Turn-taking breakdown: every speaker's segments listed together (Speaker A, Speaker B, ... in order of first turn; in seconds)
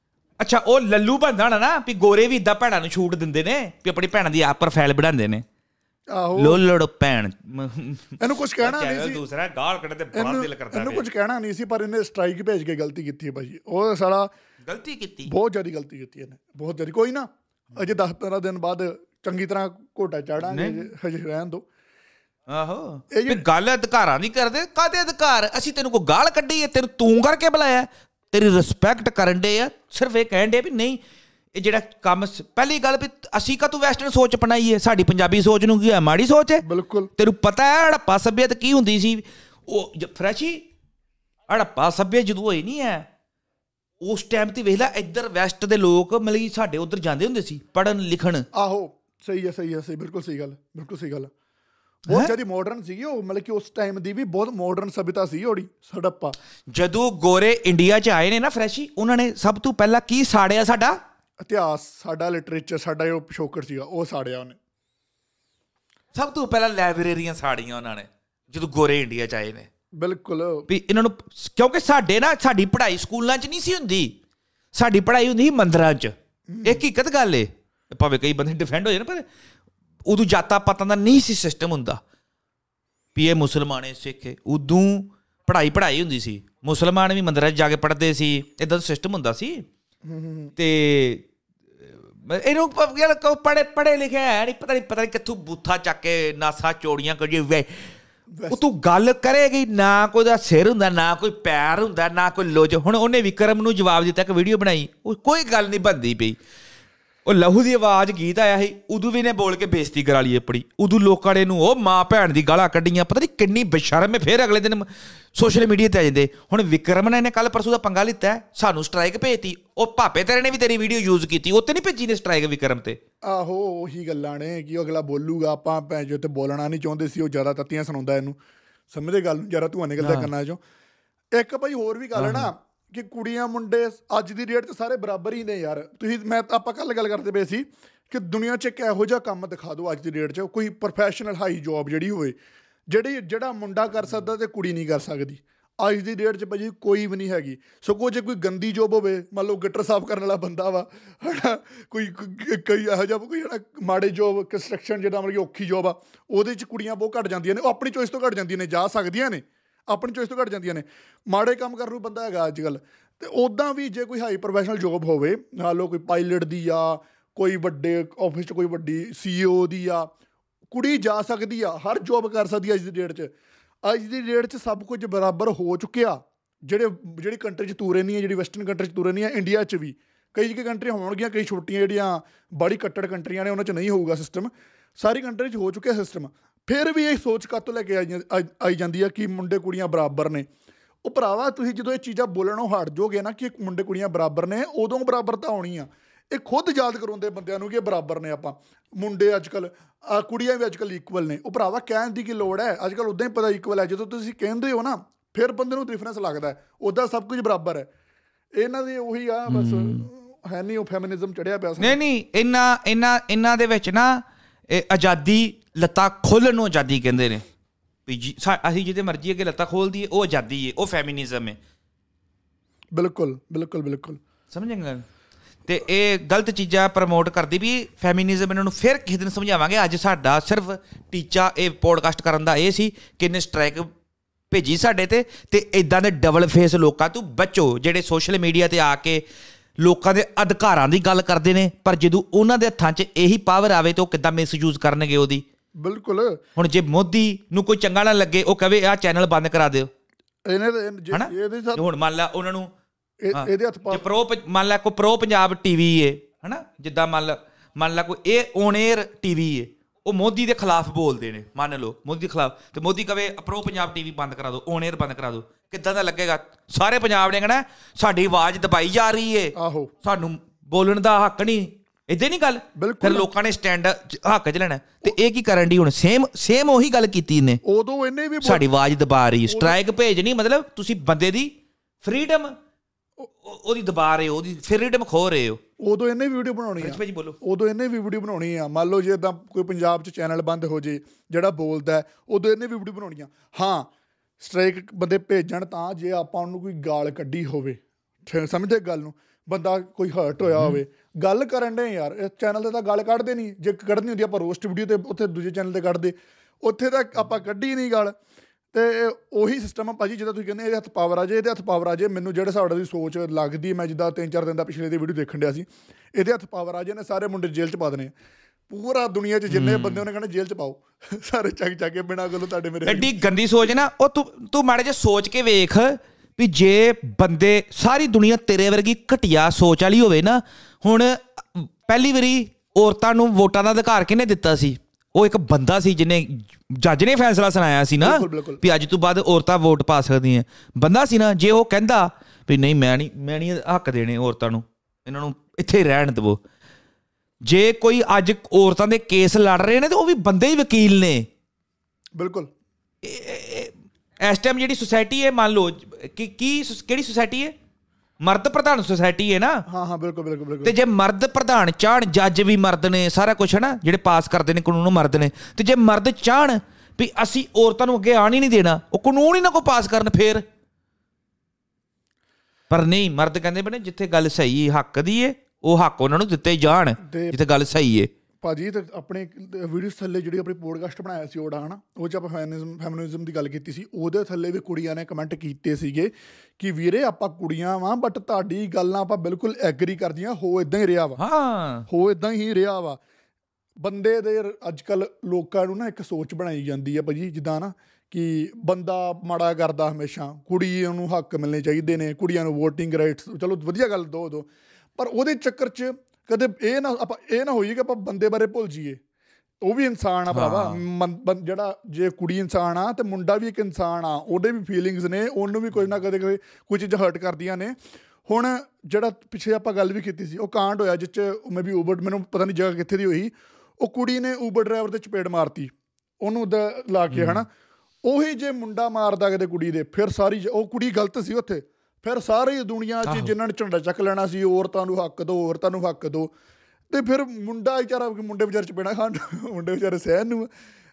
Speaker A: 0.4-5.4, 6.4-11.1, 14.7-15.3, 20.4-20.9, 22.5-31.0, 31.6-36.6, 37.2-40.6, 41.5-43.1, 44.0-48.5, 56.7-61.0, 66.2-69.7, 70.7-74.1, 74.7-79.2, 80.1-82.0, 83.2-89.7, 90.6-91.2, 91.9-97.9, 98.5-106.4, 107.3-123.0, 130.0-130.3, 132.2-132.5, 209.5-210.1, 211.8-217.4, 218.1-221.6, 224.5-225.0, 225.7-233.9, 234.5-239.2, 239.8-245.4, 246.6-249.9, 251.1-252.7, 253.3-277.6, 278.4-281.5, 282.0-282.5, 283.3-285.6, 286.8-287.4, 319.5-320.0, 322.9-346.4, 347.5-351.3, 353.0-357.5, 358.2-359.6, 360.6-370.4, 372.7-378.1, 391.2-391.9, 410.3-410.8, 427.1-427.4, 433.1-433.3
Speaker B: 6.1-6.6, 8.2-9.2, 10.1-14.3, 15.3-21.6, 23.1-23.4, 36.6-37.1, 48.5-51.3, 52.1-56.4, 61.4-64.6, 70.0-70.7, 76.5-76.8, 90.0-90.5, 98.4-98.6, 123.2-128.4, 128.9-130.6, 131.3-142.4, 142.9-170.1, 170.7-173.3, 173.8-190.5, 191.1-207.9, 208.6-212.0, 222.9-224.2, 245.8-246.4, 250.5-251.8, 253.2-254.0, 269.6-269.9, 272.8-273.3, 277.6-278.6, 279.5-279.8, 285.8-308.1, 308.7-318.1, 318.7-323.1, 338.0-338.6, 352.2-352.5, 359.7-360.8, 377.0-377.4, 378.4-391.2, 391.9-393.0, 393.8-409.0, 409.6-427.5, 428.0-436.3, 436.9-440.5